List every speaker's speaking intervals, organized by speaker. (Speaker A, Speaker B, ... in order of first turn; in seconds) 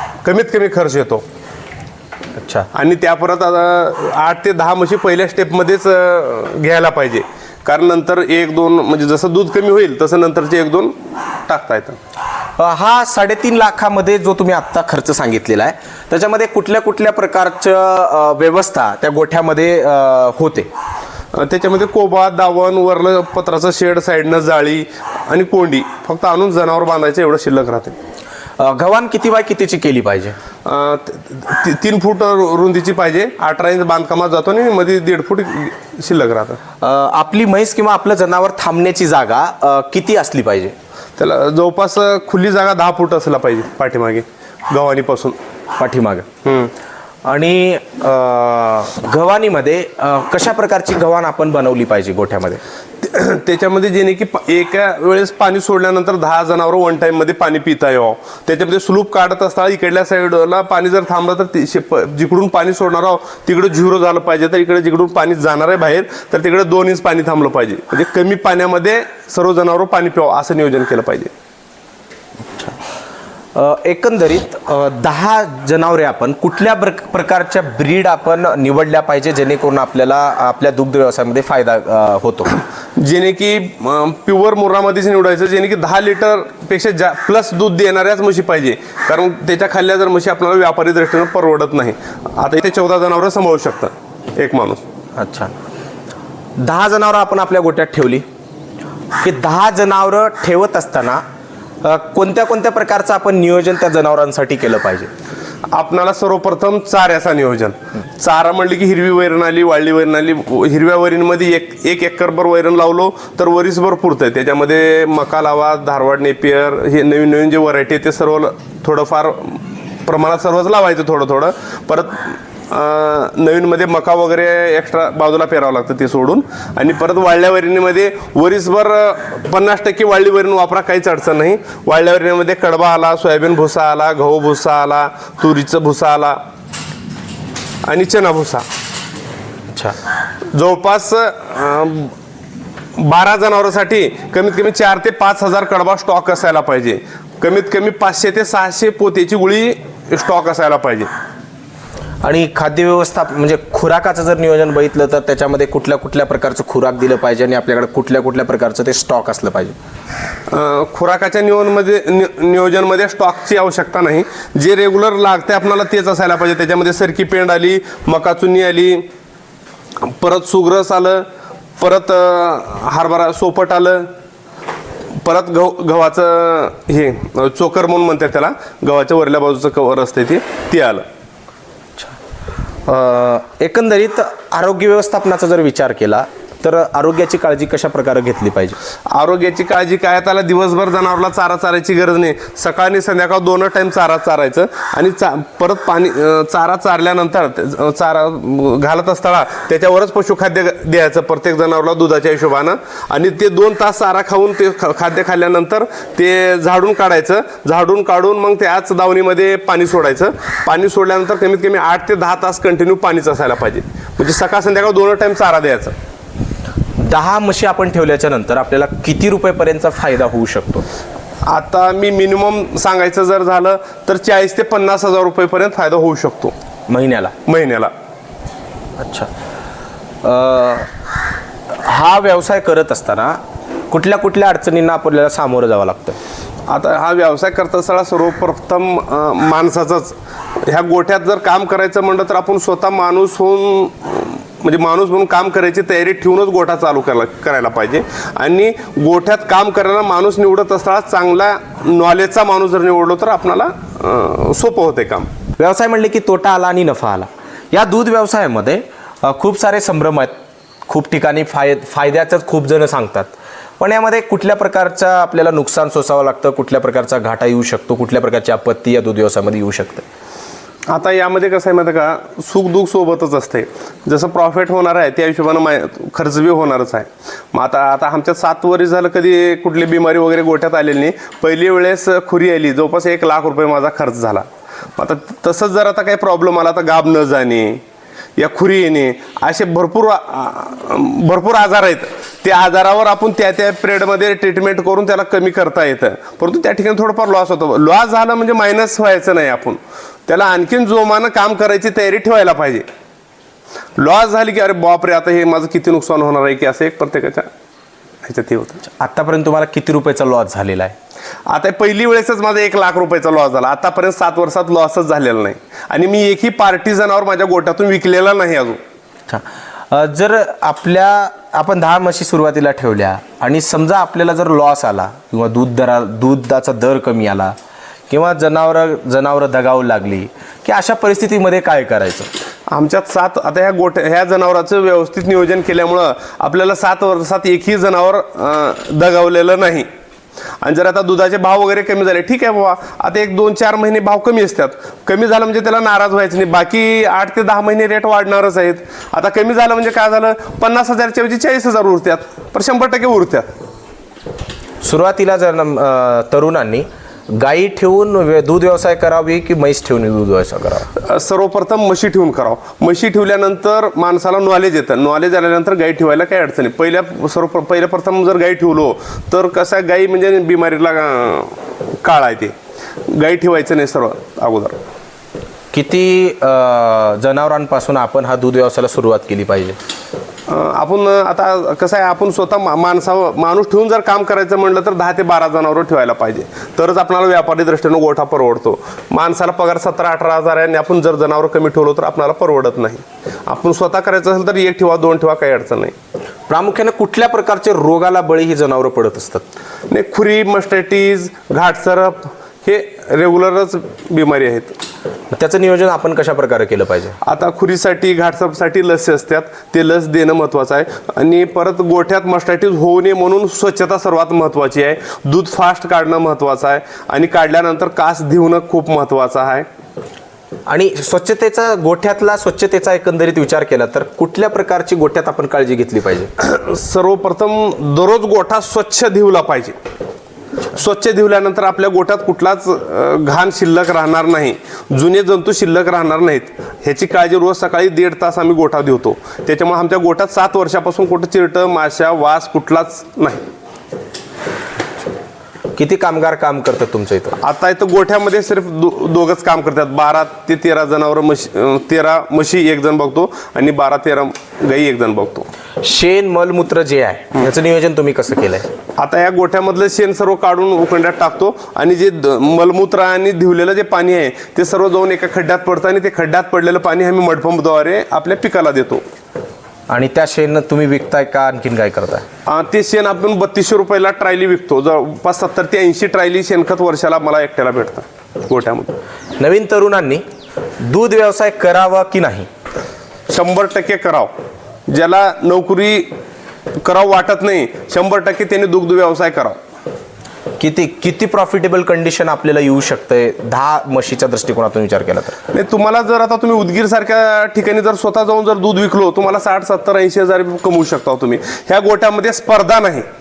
Speaker A: 0.2-1.2, 2.7-12.0, 21.3-27.9, 30.6-36.6, 41.2-45.4, 46.4-46.7, 53.0-71.3, 83.0-94.8, 105.7-136.4, 137.8-138.7, 140.5-142.1, 143.0-151.1, 160.5-169.1, 170.0-174.1, 175.2-181.0, 189.1-215.9, 221.4-226.5, 227.4-227.9, 236.7-255.3, 270.9-287.8, 288.4-302.9, 304.0-307.5, 308.2-308.8, 311.5-318.8, 332.7-339.9, 340.6-353.5, 361.0-372.5, 373.1-374.8, 380.5-395.9, 399.9-404.8, 407.2-419.7, 426.4-429.8, 430.7-443.4, 447.4-455.5, 459.0-469.0, 472.5-478.9, 483.3-484.3, 484.9-486.1, 486.8-489.6, 495.5-503.1
Speaker B: 2.4-2.7, 12.6-20.7, 28.6-30.4, 36.8-40.7, 45.8-46.3, 47.2-52.6, 73.5-82.5, 95.2-95.5, 96.6-98.2, 99.2-101.2, 101.8-105.1, 139.7-140.0, 152.2-159.8, 182.8-188.8, 217.0-220.8, 226.9-227.3, 229.0-229.3, 230.2-230.9, 231.7-236.2, 255.6-260.3, 260.9-270.1, 308.9-310.9, 319.3-327.5, 328.1-332.3, 354.8-360.9, 375.7-379.8, 396.5-399.4, 405.3-407.2, 420.7-426.3, 445.7-447.4, 455.8-458.7, 469.9-472.2, 479.4-480.2, 480.8-482.5, 490.6-495.4